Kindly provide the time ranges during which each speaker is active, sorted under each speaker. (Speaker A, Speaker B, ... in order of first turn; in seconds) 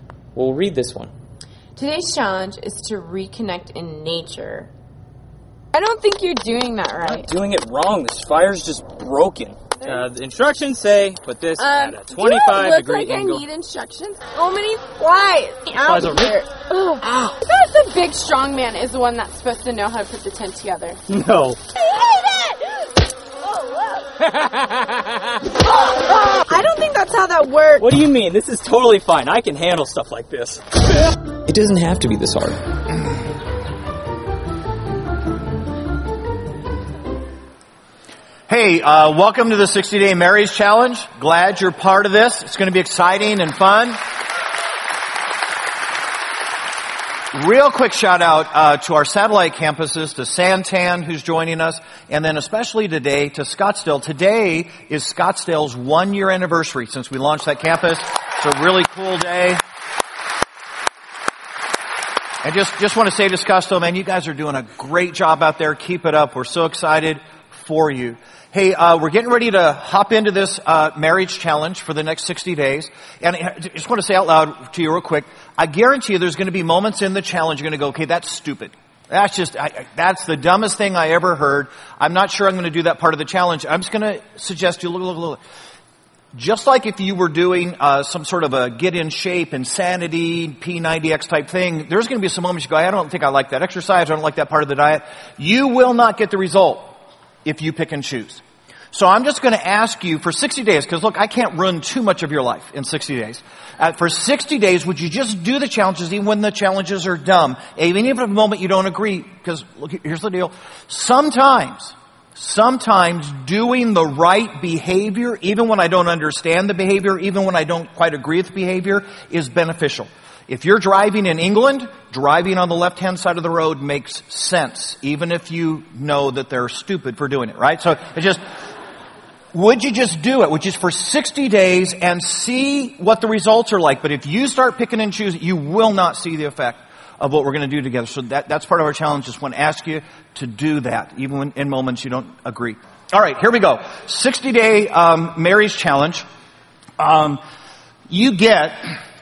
Speaker A: 0.3-1.1, 7.0-13.4, 15.8-16.4, 21.1-21.6, 24.2-25.2, 27.8-30.6, 31.4-32.6
Speaker B: 1.8-4.7, 5.7-7.3, 9.8-10.1, 11.6-21.0, 21.7-24.1, 25.6-27.9
Speaker C: 38.5-44.0, 47.3-59.6, 62.4-85.4, 86.3-96.9, 97.4-128.4, 129.5-146.2, 147.0-147.4, 148.1-148.9